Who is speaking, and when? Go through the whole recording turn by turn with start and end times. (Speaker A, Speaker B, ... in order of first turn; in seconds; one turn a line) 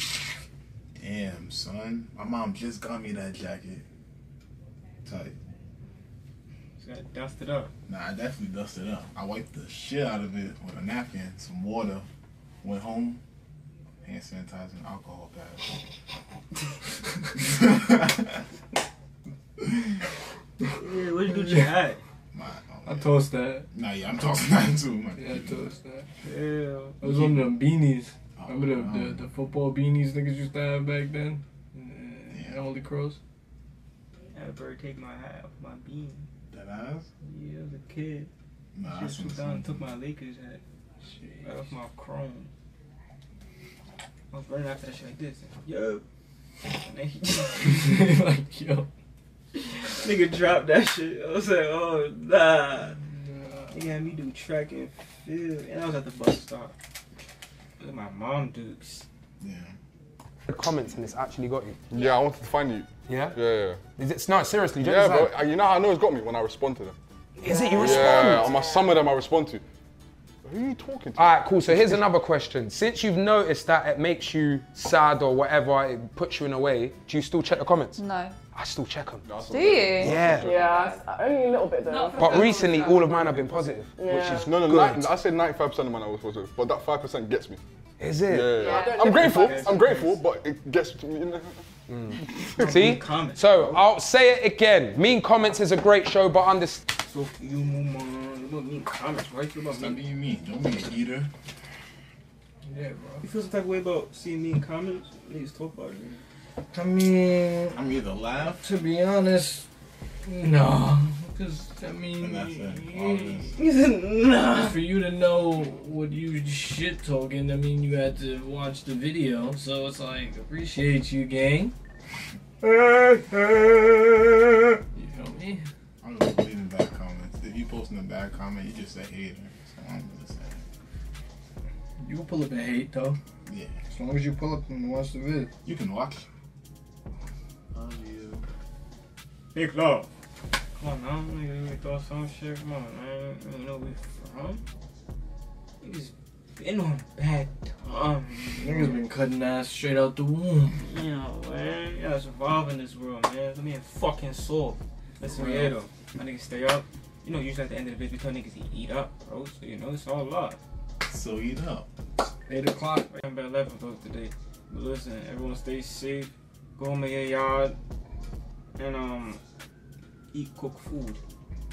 Speaker A: 1.0-3.9
Speaker A: 5.0-5.4
Speaker B: 6.8-7.7
Speaker A: 7.9-12.1
Speaker A: 12.6-13.2
Speaker A: 14.0-15.8
Speaker A: 17.4-18.4
Speaker B: 20.8-22.0
Speaker C: 21.3-21.7
Speaker A: 22.3-23.2
Speaker C: 22.9-23.7
Speaker A: 23.7-25.6
Speaker C: 25.2-26.1
Speaker B: 26.2-27.4
Speaker C: 27.0-33.2
Speaker A: 28.4-29.3
Speaker A: 32.3-32.6
Speaker B: 34.3-36.3
Speaker A: 36.5-37.1
Speaker B: 37.2-38.3
Speaker A: 38.8-39.9
Speaker B: 38.9-40.6
Speaker C: 41.0-41.6
Speaker B: 41.4-42.5
Speaker B: 44.3-46.0
Speaker B: 46.6-48.1
Speaker C: 47.8-48.9
Speaker B: 49.6-53.0
Speaker C: 53.0-53.8
Speaker B: 53.7-56.7
Speaker B: 57.8-59.1
Speaker A: 59.4-59.7
Speaker D: 60.5-61.8
Speaker E: 61.9-63.8
Speaker D: 63.1-63.4
Speaker D: 64.0-65.4
Speaker E: 64.8-67.0
Speaker D: 67.4-68.6
Speaker E: 67.8-69.6
Speaker E: 70.5-72.0
Speaker D: 71.2-78.0
Speaker F: 78.0-78.4
Speaker D: 78.5-79.3
Speaker E: 79.2-80.8
Speaker F: 79.5-81.0
Speaker D: 80.0-80.5
Speaker G: 80.4-82.5
Speaker F: 81.9-83.0
Speaker D: 82.2-85.1
Speaker G: 84.0-84.6
Speaker E: 84.1-87.6
Speaker D: 88.0-88.6
Speaker E: 88.2-91.6
Speaker F: 88.6-89.0
Speaker G: 88.6-89.7
Speaker B: 89.0-90.2
Speaker D: 91.9-96.8
Speaker B: 92.3-93.5
Speaker B: 96.9-100.0
Speaker A: 99.7-101.3
Speaker C: 102.7-103.3
Speaker B: 103.2-106.2
Speaker C: 106.7-107.8
Speaker A: 107.7-108.7
Speaker C: 108.6-109.7
Speaker C: 110.2-113.5
Speaker A: 112.2-113.5
Speaker B: 113.6-114.8
Speaker C: 114.5-121.7
Speaker C: 122.6-125.6
Speaker A: 126.0-130.6
Speaker C: 132.0-133.2
Speaker A: 133.5-133.8
Speaker C: 133.9-135.5
Speaker A: 135.7-136.3
Speaker A: 137.7-138.4
Speaker B: 139.6-140.1
Speaker B: 140.8-144.6
Speaker B: 145.8-149.0
Speaker C: 148.6-150.8
Speaker B: 150.8-160.6
Speaker C: 155.2-155.8
Speaker A: 161.1-161.9
Speaker C: 162.5-163.1
Speaker B: 163.0-167.8
Speaker B: 168.8-169.4
Speaker B: 170.3-171.2